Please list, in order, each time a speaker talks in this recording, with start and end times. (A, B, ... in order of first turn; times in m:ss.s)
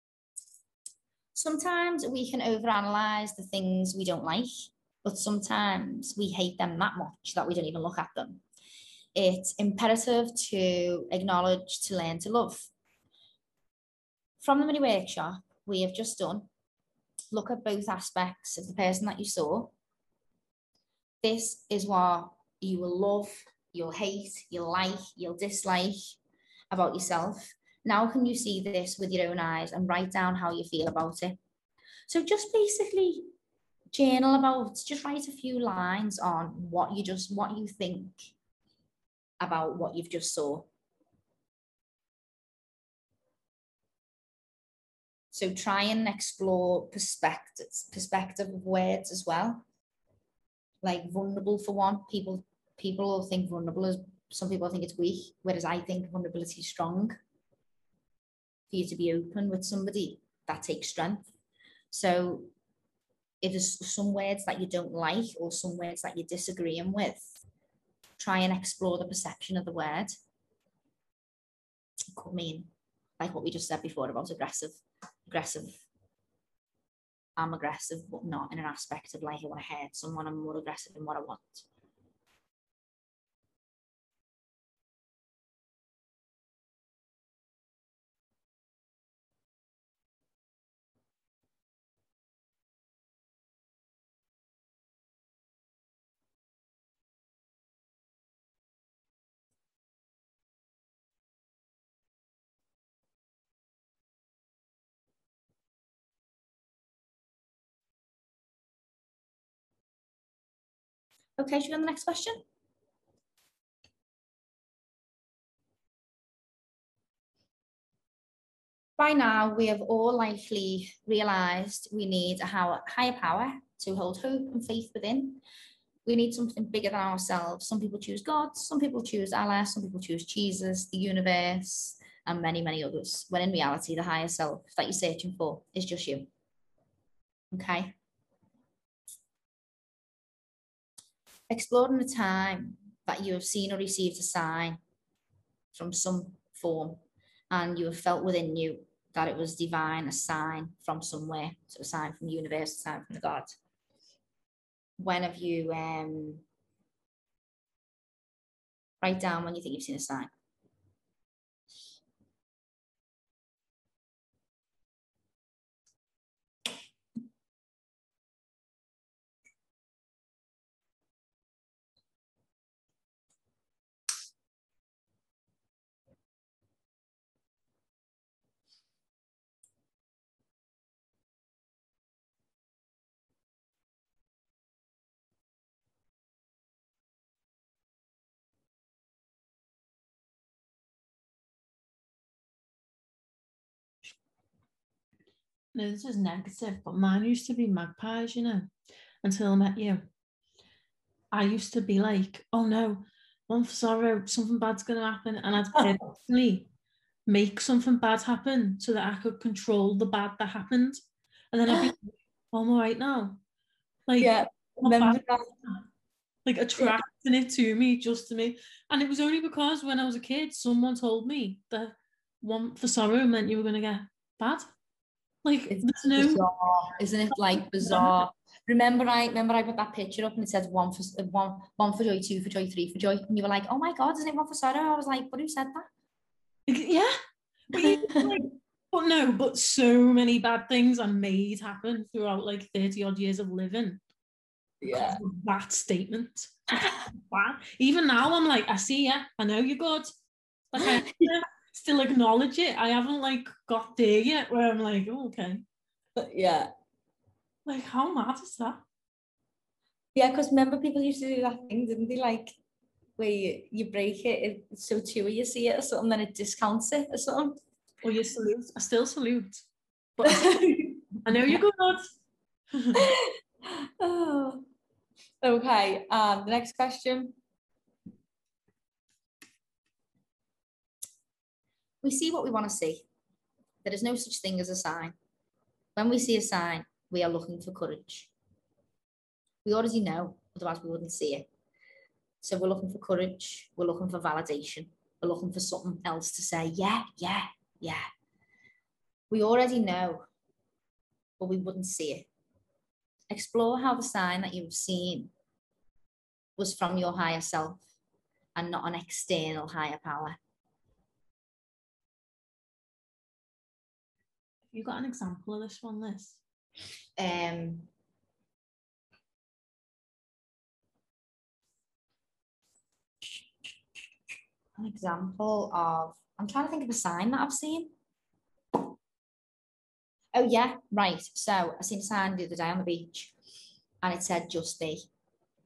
0:01.3-0:04.5 A
0:05.0-0:08.4 A
0:09.1-0:12.7 A
0:14.4-0:16.5 A
0:17.3-0:19.7 A
0:21.2-0:26.2 A
0:26.7-0:31.4 A
0:32.1-0:33.3 A
0:33.9-0:38.3 A
0:39.4-0:40.7 A
0:45.3-0:49.6 A
0:50.8-0:57.2 A
0:58.7-1:01.3 A
1:01.9-1:02.5 A
1:03.4-1:07.4 A
1:08.2-1:10.2 A
1:12.1-1:15.8 A
1:17.4-1:21.6 A
1:51.4-1:52.4 A
1:59.0-2:05.4 A
2:06.0-2:16.3 A
2:17.5-2:17.9 A
2:21.5-2:24.8 A
2:25.7-2:33.5 A
2:35.0-2:36.4 A
2:39.0-2:40.3 A
3:15.7-3:18.7 B
3:19.2-3:20.0 B
3:21.3-3:26.7 B
3:27.3-3:31.0 B
3:31.5-3:33.4 B
3:34.1-3:35.7 B
3:34.2-3:35.5 A
3:36.4-3:44.7 B
3:45.4-3:46.4 B
3:45.7-3:55.9 A
3:47.8-3:48.1 B
3:56.7-3:57.2 B
3:57.7-4:04.0 B
3:57.7-3:58.4 A
4:04.8-4:05.2 A
4:04.9-4:10.1 B
4:10.7-4:15.6 B
4:10.8-4:11.3 A
4:16.2-4:16.7 A
4:17.6-4:18.8 B
4:20.1-4:22.6 A
4:23.2-4:27.6 A
4:28.0-4:29.6 B
4:30.2-4:30.6 B
4:30.2-4:31.6 A
4:31.2-4:32.1 B
4:34.0-4:34.6 A
4:35.4-4:37.4 A
4:42.0-4:43.0 A
4:43.8-4:45.1 A
4:46.0-4:48.3 A
4:49.6-4:51.4 A
4:52.4-4:58.0 A
4:59.3-5:00.2 A
5:01.4-5:02.3 A
5:03.3-5:05.3 A
5:06.6-5:07.8 A
5:08.6-5:10.4 A
5:14.7-5:16.4 B
5:17.2-5:17.9 A
5:24.8-5:27.9 A
5:30.3-5:33.3 A
5:34.0-5:35.0 A